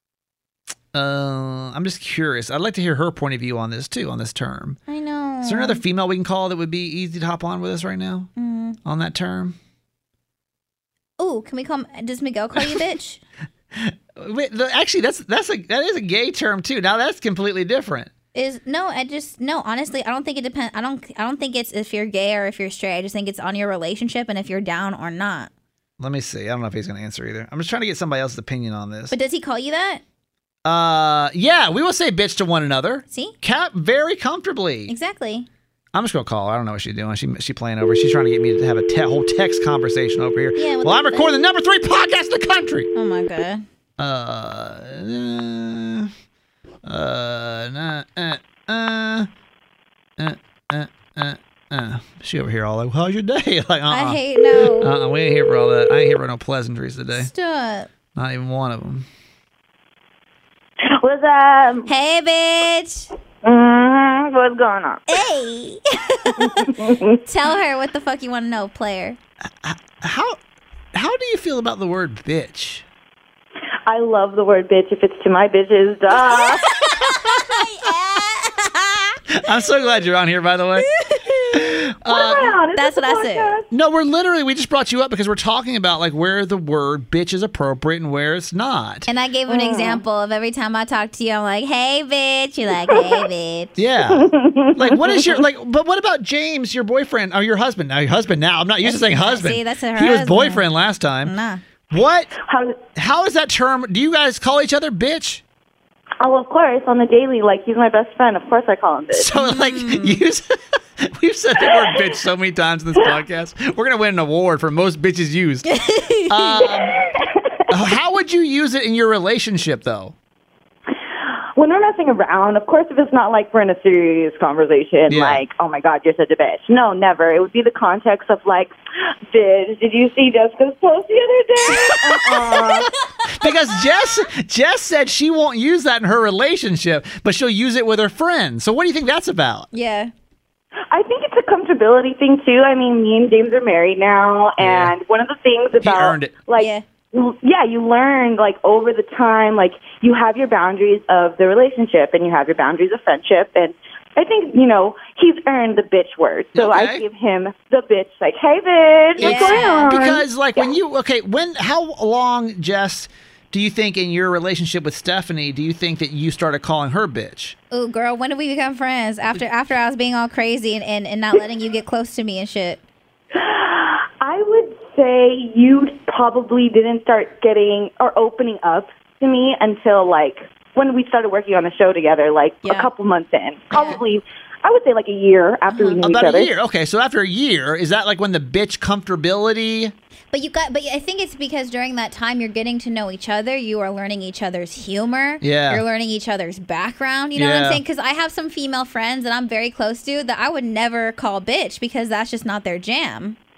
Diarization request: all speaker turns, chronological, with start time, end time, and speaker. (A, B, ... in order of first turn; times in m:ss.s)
0:00.9-0:04.8 A
0:04.9-0:05.8 B
0:05.4-0:08.3 A
0:08.4-0:08.8 B
0:08.8-0:09.6 A
0:11.2-0:13.2 B
0:13.7-0:18.1 A
0:18.3-0:25.5 B
0:26.0-0:29.1 A
0:29.1-0:30.0 B
0:30.6-0:34.9 A
0:34.9-0:35.5 B
0:35.9-0:42.9 A
0:40.6-0:41.5 B
0:42.9-0:43.6 B
0:44.0-0:46.1 A
0:46.8-0:49.3 A
0:50.2-0:54.2 A
0:53.9-0:54.9 B
0:54.8-0:57.3 A
0:57.1-0:57.9 B
0:58.2-0:59.0 A
1:00.9-1:01.9 C
1:01.9-1:03.1 B
1:03.4-1:05.0 C
1:05.1-1:09.2 B
1:06.4-1:07.2 C
1:09.6-1:10.4 A
1:10.9-1:12.8 A
1:13.8-1:16.7 C
1:16.1-1:19.2 B
1:17.1-1:17.4 A
1:19.3-1:20.9 A
1:20.8-1:23.6 B
1:21.5-1:22.6 A
1:22.1-1:23.6 C
1:23.7-1:29.1 A
1:29.1-1:33.8 B
1:29.5-1:30.0 C
1:32.9-1:33.2 C
1:33.8-1:41.3 A
1:34.1-1:35.2 C
1:38.8-1:40.6 B
1:41.2-1:41.6 B
1:41.9-1:42.4 A
1:42.4-1:42.8 C
1:42.9-1:45.4 A
1:46.2-1:49.3 C
1:49.1-1:55.7 A
1:49.4-1:50.2 B
1:51.7-1:52.0 C
1:55.6-1:56.7 B
1:56.3-1:57.0 A
1:56.6-1:57.8 C
1:57.7-2:00.1 A
2:01.6-2:08.7 C
2:05.1-2:05.4 A
2:09.3-2:12.9 C
2:11.8-2:13.5 B
2:13.3-2:19.7 A
2:19.7-2:20.1 B
2:20.9-2:40.6 C
2:24.6-2:24.9 A
2:25.8-2:26.4 A
2:26.5-2:26.8 B
2:36.5-2:37.0 A
2:39.2-2:39.9 B
2:39.2-2:47.6 A
2:47.7-2:52.8 B
2:53.4-3:06.5 C
3:02.6-3:02.9 B
3:03.7-3:04.0 B
3:05.7-3:06.0 B
3:06.0-3:09.9 A
3:10.3-3:23.4 B
3:15.4-3:15.8 A
3:17.4-3:17.8 A